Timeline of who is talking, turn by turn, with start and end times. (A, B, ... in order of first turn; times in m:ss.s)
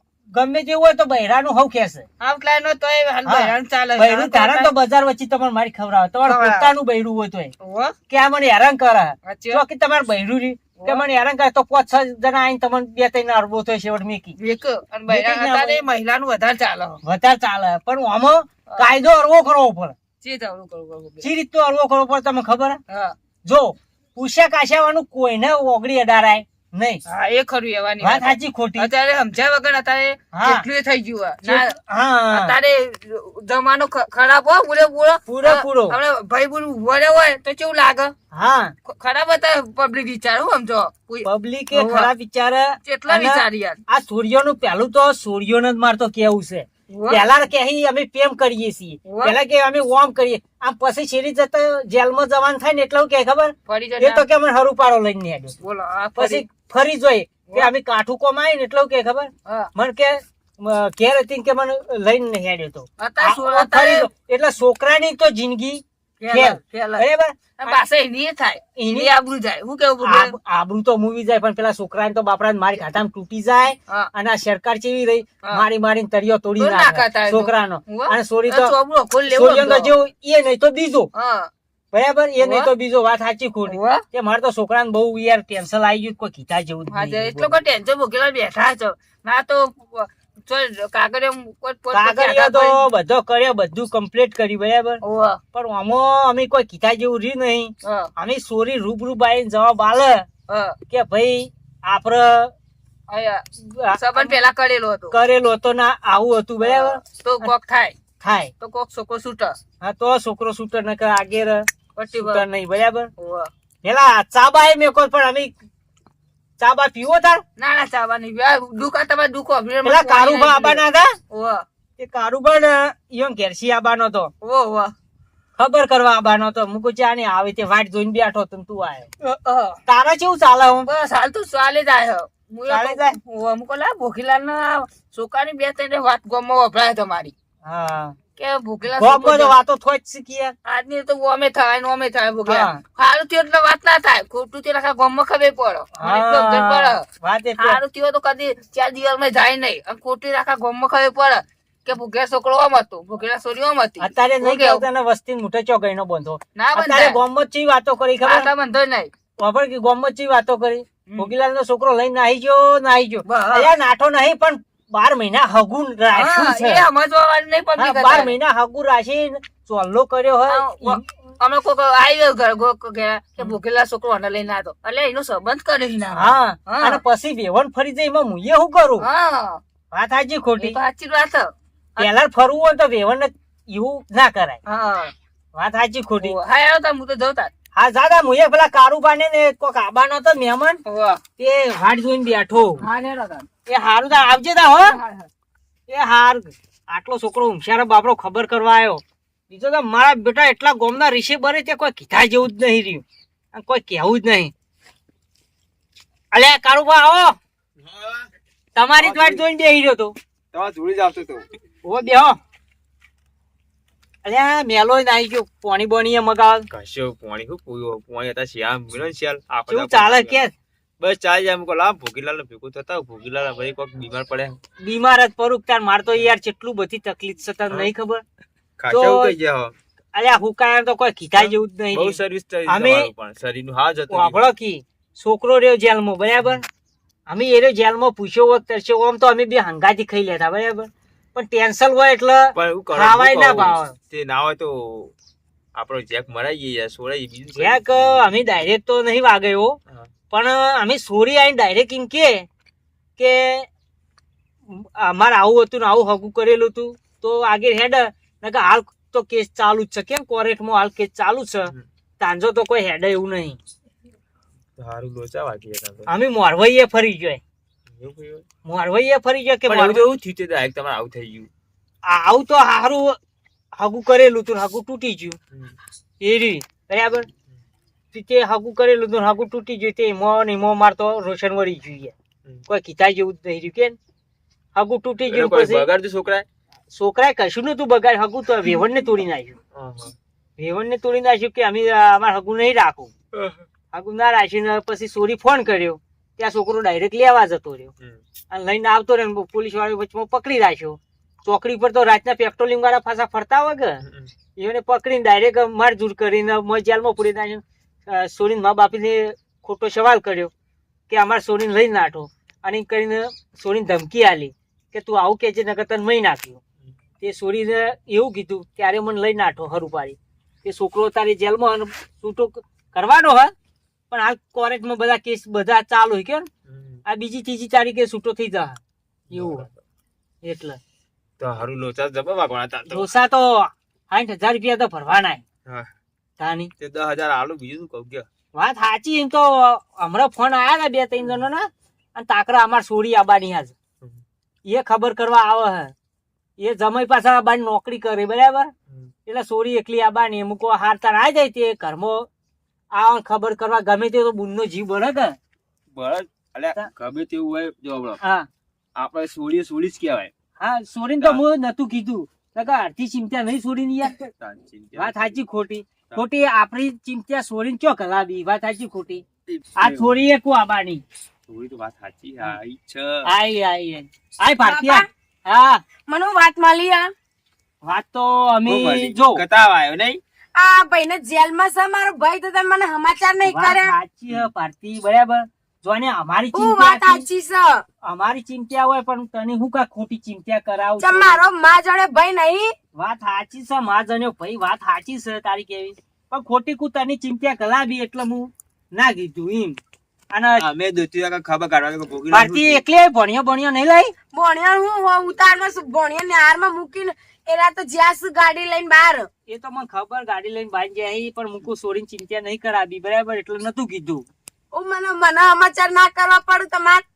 0:00.3-0:02.0 A
0:02.2-0:04.7 B
0:03.2-0:07.5 A
0:06.2-0:06.7 B
0:07.6-0:07.9 B
0:08.1-0:14.4 A
0:09.2-0:09.6 B
0:10.8-0:11.0 B
0:14.4-0:17.0 B
0:15.1-0:15.8 A
0:17.0-0:20.0 A
0:20.2-0:21.3 B
0:21.2-0:22.8 A
0:22.9-0:23.2 B
0:23.4-0:27.0 A
0:27.0-0:31.8 B
0:28.0-0:28.9 A
0:30.3-0:30.6 A
0:31.4-0:32.5 A
0:32.3-0:38.1 B
0:35.3-0:36.0 A
0:38.3-0:38.7 A
0:38.8-0:42.1 B
0:41.2-0:55.5 A
0:42.8-0:43.8 B
0:46.9-0:47.2 B
0:49.0-0:49.4 B
0:53.7-0:54.2 B
0:55.6-0:56.4 B
0:56.2-1:07.8 A
1:03.0-1:04.1 B
1:06.2-1:07.0 B
1:07.6-1:10.4 B
1:08.8-1:09.1 A
1:10.0-1:18.7 A
1:16.6-1:19.9 B
1:19.3-1:21.1 A
1:21.1-1:21.5 B
1:21.9-1:27.5 A
1:22.4-1:22.7 B
1:23.7-1:24.0 B
1:26.9-1:32.8 B
1:31.9-1:35.0 A
1:35.0-1:35.4 B
1:35.5-1:40.2 A
1:37.8-1:38.1 B
1:40.5-1:40.8 B
1:40.9-1:42.5 A
1:43.1-1:45.1 B
1:43.6-1:44.3 A
1:45.1-1:47.5 A
1:46.6-1:48.0 B
1:48.2-1:48.5 A
1:48.6-1:49.6 B
1:49.8-1:53.1 A
1:52.0-1:52.4 B
1:53.2-1:53.5 B
1:53.8-1:55.5 A
1:56.6-1:57.4 A
1:57.6-2:01.6 B
1:59.8-2:01.1 A
2:02.0-2:04.3 A
2:04.4-2:04.9 B
2:05.6-2:09.1 A
2:09.2-2:09.8 B
2:09.8-2:10.9 A
2:10.8-2:17.3 B
2:12.7-2:13.2 A
2:17.6-2:18.2 A
2:18.4-2:19.6 B
2:18.9-2:20.5 A
2:20.6-2:27.0 B
2:22.4-2:22.8 A
2:26.0-2:27.8 A
2:27.6-2:34.8 B
2:34.0-2:38.5 A
2:36.6-2:37.2 B
2:38.2-2:39.1 B
2:39.4-2:46.9 A
2:43.2-2:43.7 B
2:46.1-2:48.4 B
2:47.8-2:51.0 A
2:50.5-2:57.0 B
2:56.1-2:59.1 A
2:59.0-2:59.6 B
2:59.9-3:00.8 A
3:00.6-3:02.1 B
3:02.0-3:04.6 A
3:04.6-3:05.1 B
3:05.5-3:06.4 A
3:06.2-3:07.5 B
3:07.7-3:10.8 A
3:10.8-3:11.2 B
3:11.4-3:12.8 A
3:12.7-3:13.5 B
3:13.7-3:15.0 A
3:14.8-3:15.3 B
3:15.9-3:24.5 A
3:26.3-3:27.4 A
3:27.8-3:28.3 C
3:28.7-3:30.2 A
3:29.0-3:29.4 C
3:30.5-3:31.4 C
3:31.8-3:32.4 A
3:34.2-3:36.7 A
3:36.7-3:40.4 C
3:39.7-3:40.5 A
3:41.0-3:44.6 C
3:44.8-3:48.2 A
3:48.8-3:49.7 C
3:48.9-3:49.4 A
3:50.1-3:53.1 A
3:51.4-3:54.4 C
3:54.1-3:56.6 A
3:57.3-4:03.9 A
4:02.6-4:05.1 C
4:05.8-4:08.3 C
4:07.5-4:09.8 A
4:10.3-4:12.5 A
4:13.2-4:13.7 A
4:14.7-4:23.6 A
4:24.8-4:26.1 C
4:26.1-4:27.4 A
4:27.9-4:28.4 C
4:28.6-4:30.1 A
4:29.7-4:31.5 C
4:32.0-4:33.2 A
4:33.7-4:35.4 A
4:36.2-4:37.3 A
4:38.1-4:42.1 A
4:42.7-4:44.0 A
4:44.7-4:45.9 A
4:45.3-4:46.5 C
4:46.9-4:49.6 A
4:49.7-4:50.1 C
4:50.6-4:53.1 A
4:53.9-4:57.9 A
4:58.5-5:04.0 A
5:04.0-5:04.3 C
5:04.6-5:10.5 A
5:11.1-5:16.6 A
5:17.2-5:23.5 A
5:24.1-5:26.5 A
5:26.7-5:27.0 C
5:27.0-5:28.8 A
5:29.3-5:29.8 C
5:29.3-5:29.6 A
5:30.4-5:30.8 A
5:31.4-5:33.1 C
5:32.9-5:35.4 A
5:36.4-5:36.7 A
5:36.8-5:38.3 C
5:38.5-5:43.7 A
5:44.6-5:45.9 A
5:46.6-5:48.7 A
5:49.2-5:52.3 A
5:52.9-5:55.4 A
5:55.9-5:58.2 C
5:58.2-5:58.5 A
5:59.0-6:00.3 C
6:00.6-6:04.3 A
6:04.3-6:05.4 C
6:04.9-6:09.2 A
6:09.5-6:10.2 C
6:09.8-6:11.0 A
6:11.5-6:13.3 C
6:13.2-6:15.8 A
6:14.6-6:15.1 D
6:16.1-6:17.1 D
6:17.8-6:19.4 A
6:18.6-6:20.2 C
6:20.6-6:23.9 D
6:23.5-6:27.3 A
6:26.5-6:27.8 D
6:28.0-6:31.4 A
6:31.0-6:32.7 D
6:32.9-6:39.8 A
6:40.3-6:40.6 A
6:40.6-6:42.8 C
6:42.3-6:44.1 A
6:44.3-6:49.3 D
6:49.5-6:54.3 A
6:54.7-6:57.0 D